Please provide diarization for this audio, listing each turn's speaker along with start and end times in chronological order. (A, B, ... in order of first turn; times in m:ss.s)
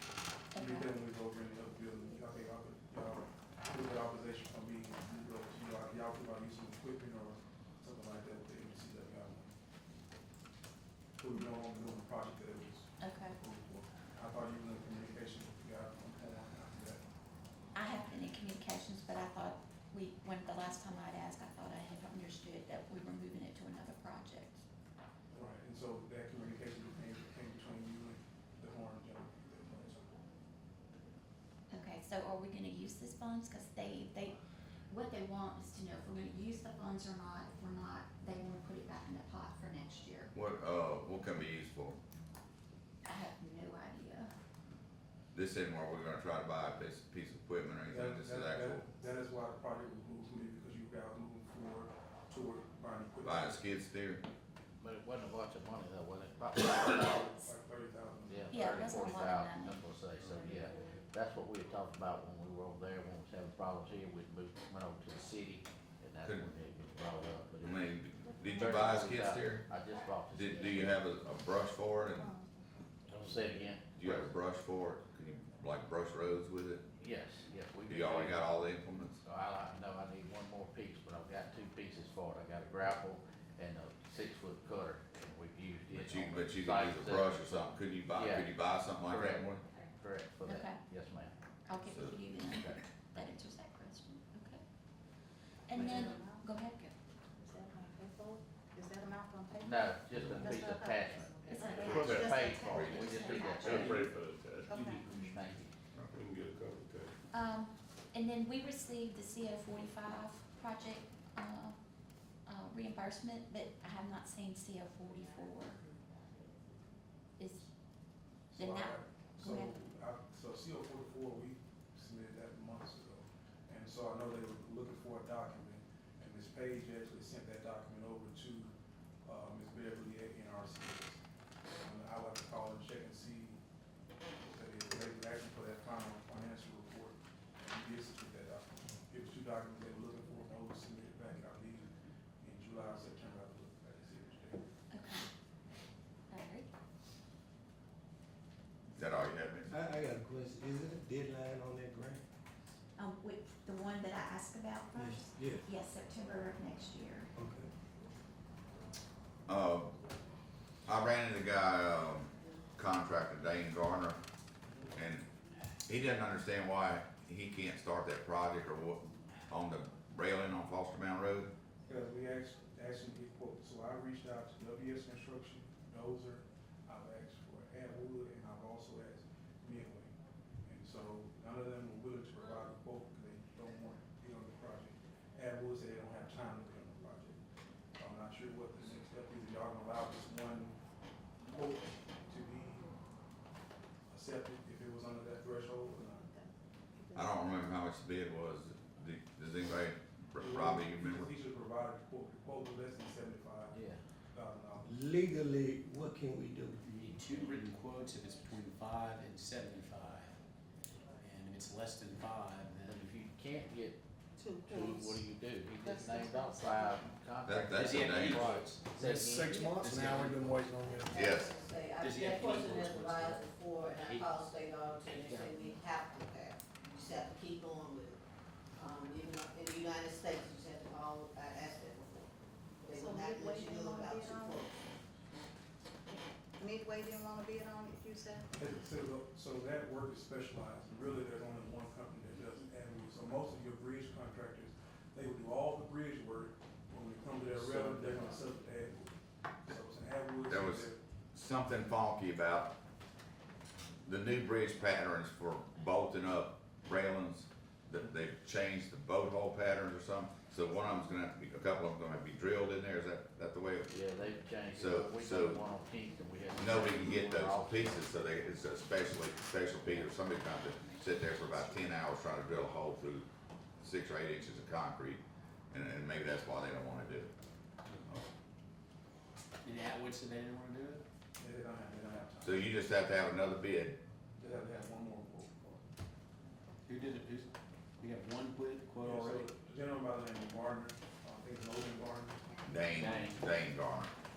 0:00.5-0:00.9 A
0:00.6-0:09.5 B
0:11.2-0:17.0 B
0:13.0-0:13.4 A
0:17.8-0:24.6 A
0:25.3-0:30.1 B
0:31.7-0:34.3 A
0:34.9-0:40.3 A
0:40.3-0:42.0 C
0:43.0-0:44.3 A
0:45.3-0:48.8 C
0:47.9-0:53.6 B
0:53.2-0:54.2 C
0:54.8-0:57.2 D
0:56.9-0:58.8 B
0:58.3-1:07.9 D
0:58.5-0:59.8 A
1:07.6-1:09.6 C
1:08.5-1:11.0 D
1:10.3-1:12.3 C
1:13.1-1:14.3 D
1:14.0-1:16.8 C
1:17.0-1:18.5 D
1:17.9-1:19.2 C
1:19.2-1:27.6 D
1:25.9-1:29.6 C
1:28.1-1:28.5 D
1:29.0-1:31.3 D
1:30.4-1:30.8 A
1:31.7-1:34.6 A
1:31.8-1:32.2 C
1:35.7-1:36.9 A
1:35.8-1:36.4 E
1:37.4-1:39.8 E
1:39.6-1:44.2 D
1:40.4-1:42.6 E
1:41.5-1:42.0 A
1:41.7-1:42.4 F
1:42.7-1:44.0 A
1:42.7-1:43.1 C
1:43.2-1:43.6 E
1:43.6-1:44.7 F
1:44.7-1:45.0 E
1:44.7-1:45.4 G
1:44.8-1:45.7 D
1:45.9-1:46.2 C
1:46.1-1:47.1 F
1:47.3-1:51.8 A
1:52.4-1:55.8 A
1:57.4-1:57.7 A
1:58.5-2:08.7 B
1:58.6-1:59.7 A
2:09.2-2:11.2 B
2:11.8-2:13.6 B
2:14.4-2:21.9 B
2:22.4-2:24.6 B
2:24.9-2:25.2 A
2:26.3-2:26.7 A
2:28.9-2:29.7 C
2:29.7-2:32.2 H
2:33.0-2:37.3 A
2:35.0-2:35.6 H
2:37.3-2:37.7 H
2:39.5-2:39.9 C
2:40.8-2:44.2 C
2:44.9-2:45.2 C
2:45.8-2:51.5 C
2:51.9-3:07.4 B
3:08.0-3:10.8 B
3:11.4-3:12.9 B
3:14.1-3:16.3 B
3:17.1-3:21.3 C
3:20.4-3:23.8 B
3:23.7-3:24.0 D
3:24.3-3:24.9 B
3:24.8-3:26.8 H
3:26.8-3:30.4 G
3:31.2-3:33.2 G
3:32.8-3:34.0 D
3:34.4-3:35.2 E
3:34.6-3:39.5 D
3:35.8-3:37.0 E
3:37.4-3:38.5 C
3:37.8-3:40.8 G
3:39.3-3:41.0 H
3:40.8-3:48.2 I
3:41.1-3:41.5 C
3:42.0-3:44.4 G
3:45.0-3:45.5 G
3:48.7-3:54.8 I
3:53.4-3:54.5 E
3:56.6-3:58.4 E
3:58.5-4:11.0 B
4:07.4-4:08.5 G
4:10.4-4:12.7 C
4:14.0-4:24.0 C
4:23.9-4:28.0 D
4:24.7-4:25.6 C
4:26.5-4:33.2 C
4:33.8-4:37.3 C
4:39.6-4:41.0 G
4:41.4-4:42.7 B
4:42.4-4:44.0 C
4:44.4-4:45.8 B
4:46.8-4:49.5 G
4:49.0-4:52.4 B
4:52.6-4:54.1 C
4:52.9-4:53.6 G